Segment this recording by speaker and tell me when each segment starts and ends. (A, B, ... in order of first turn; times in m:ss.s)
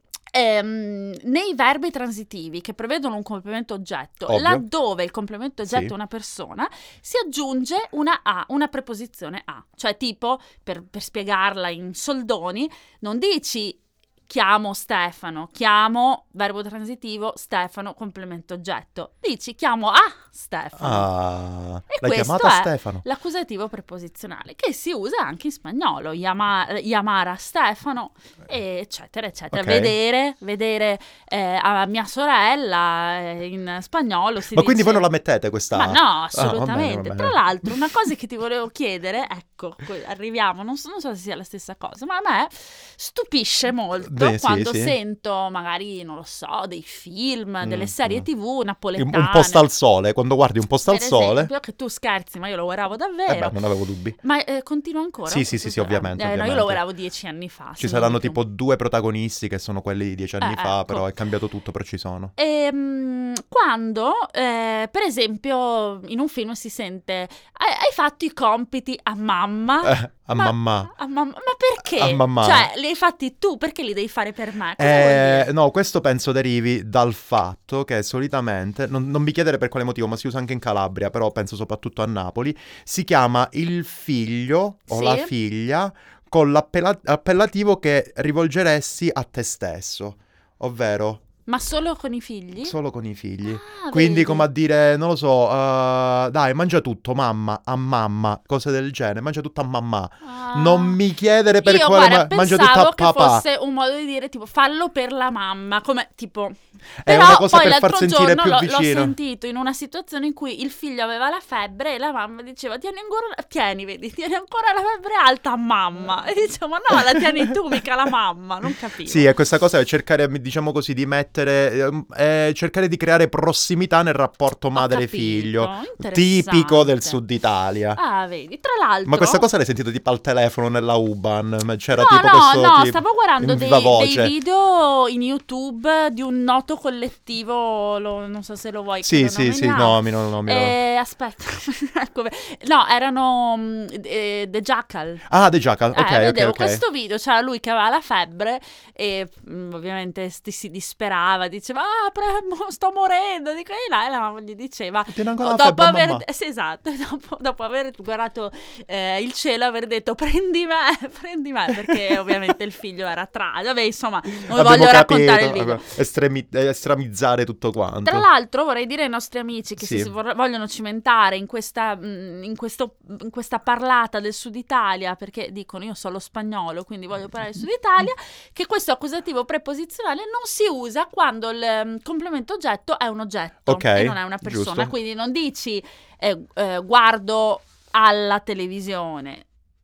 0:00.3-0:21.1 A
0:04.3-0:04.6 B
0:05.6-0:05.9 B
0:20.8-0:23.0 B
0:21.9-0:35.1 A
0:29.5-0:29.9 B
0:34.5-0:37.4 B
0:35.7-0:49.6 A
0:44.0-0:45.0 B
0:47.6-0:48.2 B
0:49.0-0:51.5 B
0:50.8-0:53.5 A
0:53.3-0:54.2 B
0:54.2-0:58.4 A
0:55.3-0:56.8 B
0:57.8-1:02.3 B
1:00.4-1:01.1 A
1:02.4-1:15.5 A
1:09.8-1:10.9 B
1:11.8-1:12.7 B
1:14.8-1:31.2 B
1:24.9-1:25.3 A
1:31.5-1:32.7 A
1:32.6-1:43.4 B
1:33.4-1:34.5 A
1:40.2-1:41.0 A
1:41.6-1:59.3 A
1:47.0-1:49.1 B
1:59.0-2:08.0 B
2:04.8-2:07.2 A
2:08.0-2:09.4 A
2:09.0-2:14.3 B
2:11.9-2:25.2 A
2:19.0-2:20.7 B
2:25.3-2:26.8 B
2:25.9-2:45.9 A
2:35.1-2:36.2 B
2:41.9-2:42.3 B
2:44.5-2:48.2 B
2:48.0-3:09.4 A
2:49.8-2:50.1 B
3:03.7-3:04.9 B